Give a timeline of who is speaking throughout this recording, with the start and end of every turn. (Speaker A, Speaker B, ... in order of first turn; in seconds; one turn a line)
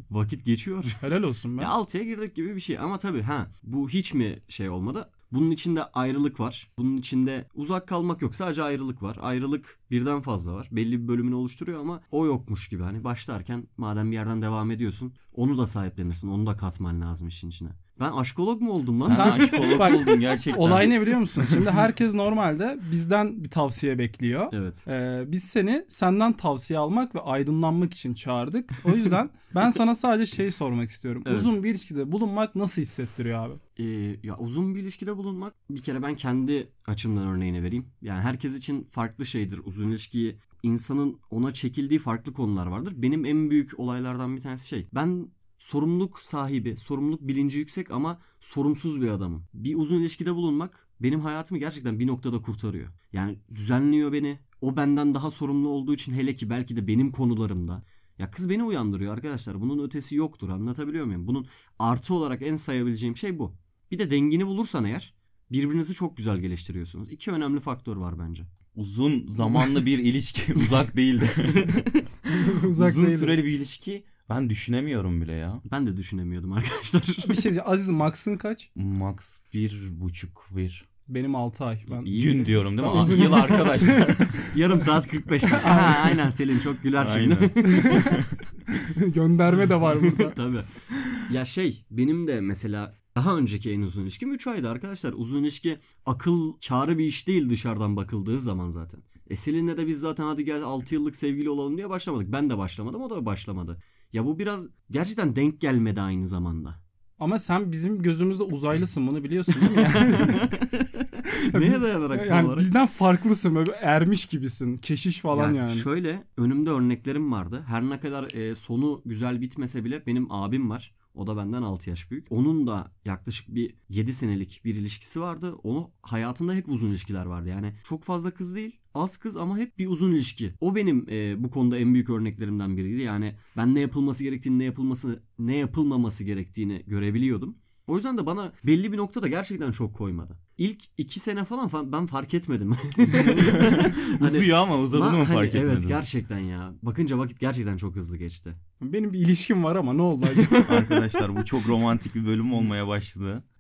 Speaker A: 0.1-1.0
Speaker B: 1.0-1.7
Speaker A: 1.6-20.0
Speaker C: 19.0-21.0
Speaker B: 19.1-33.6
Speaker A: 24.5-24.9
Speaker A: 31.2-31.6
Speaker A: 33.8-68.5
Speaker C: 68.8-71.8
Speaker A: 71.5-72.0
Speaker B: 72.3-73.4
Speaker C: 72.7-75.6
Speaker A: 75.7-77.5
Speaker B: 77.2-78.7
Speaker C: 78.8-80.8
Speaker B: 81.1-84.5
Speaker A: 81.9-83.6
Speaker C: 82.1-84.4
Speaker A: 84.5-88.1
Speaker B: 85.5-86.2
Speaker C: 87.0-88.3
Speaker B: 87.7-88.2
Speaker B: 89.0-90.4
Speaker A: 89.5-90.7
Speaker A: 91.2-106.8
Speaker B: 107.2-110.5
Speaker A: 109.5-112.7
Speaker B: 111.5-115.9
Speaker A: 115.3-148.6
Speaker C: 143.1-146.0
Speaker B: 148.8-150.8
Speaker A: 150.3-151.0
Speaker C: 150.6-153.4